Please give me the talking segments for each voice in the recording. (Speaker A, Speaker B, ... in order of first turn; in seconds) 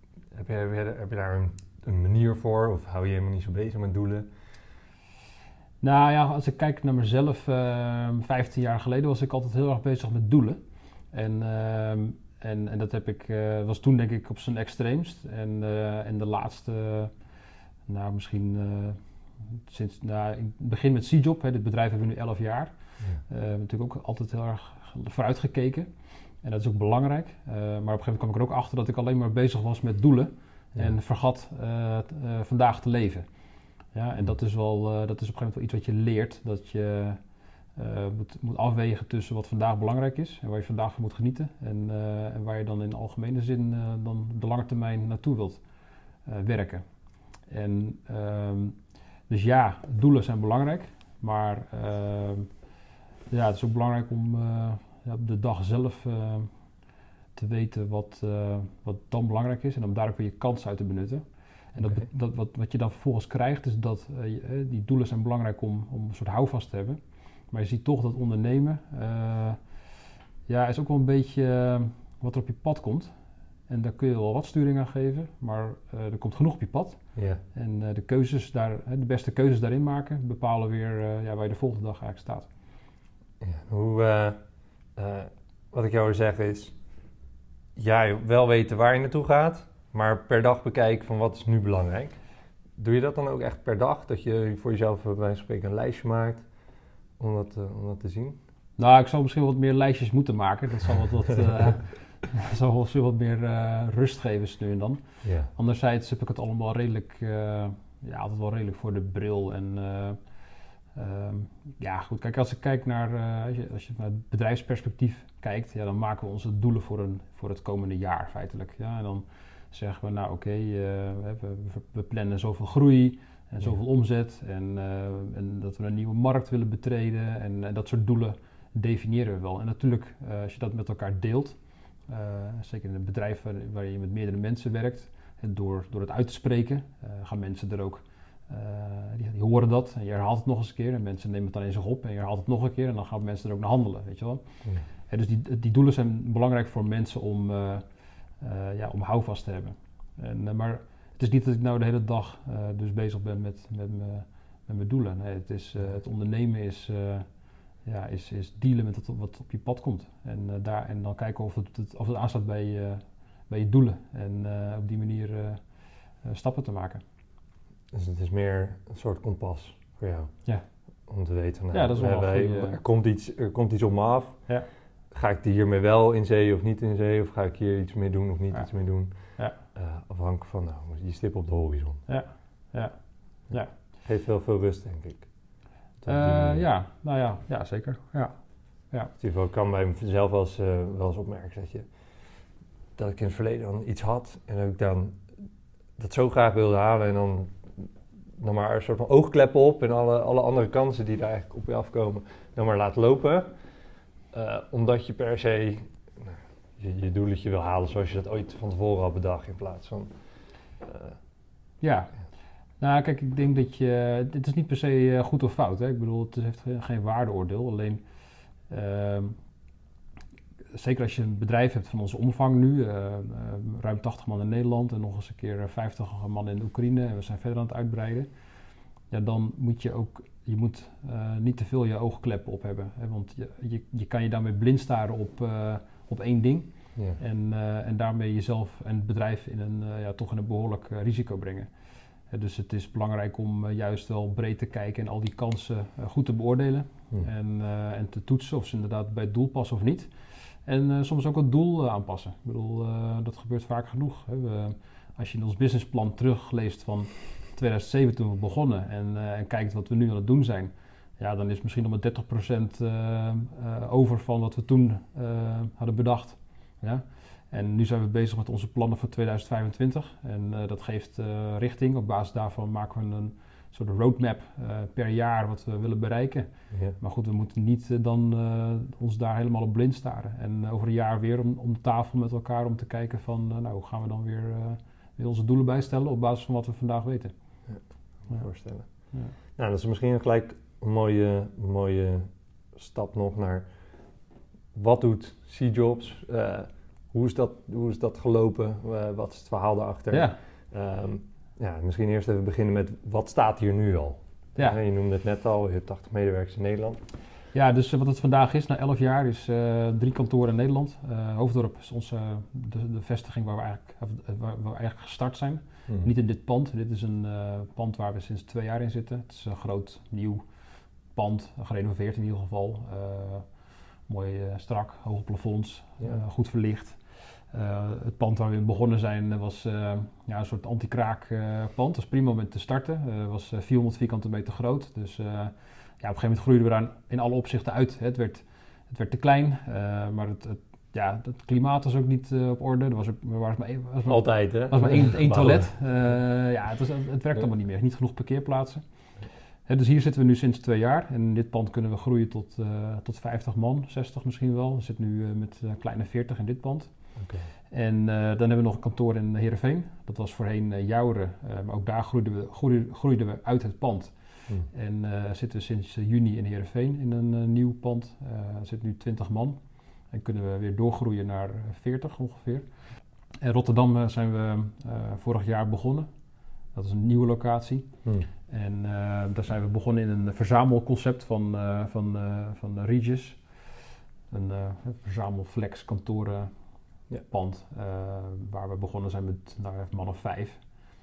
Speaker A: 0.3-4.3, 61.8-62.1, 77.2-77.4, 83.4-84.4, 85.0-86.7, 87.8-92.2, 92.8-96.5, 97.2-98.4, 105.2-105.5, 167.9-170.3, 171.1-174.4, 175.1-182.0, 184.1-185.3, 186.1-186.6, 189.2-191.9, 193.0-195.2, 196.0-203.5, 204.3-210.1, 210.8-211.2, 287.7-288.9, 289.6-293.7, 294.7-307.0, 344.1-345.7, 357.2-357.5
Speaker B: 5.8-10.6, 11.1-17.1, 17.9-25.9, 26.4-33.3, 33.9-37.2, 37.8-45.6, 46.3-46.8, 47.5-48.8, 49.3-52.5, 53.3-56.5, 57.4-67.0, 67.5-69.6, 70.5-73.1, 73.7-77.0, 77.5-82.5, 98.8-110.2, 111.0-131.6, 132.1-147.8, 148.4-157.3, 157.8-165.6, 166.2-167.0, 171.7-172.8, 182.1-183.0, 186.1-188.3, 211.8-212.1, 212.8-218.0, 218.7-219.4, 220.7-228.3, 229.1-241.7, 242.3-287.3, 300.1-300.4, 307.5-320.4, 321.1-323.5, 324.1-348.8, 349.7-356.9, 357.7-369.6, 370.1-372.7, 373.4-376.1, 376.8-377.9, 378.5-383.6, 384.3-386.5, 387.3-390.6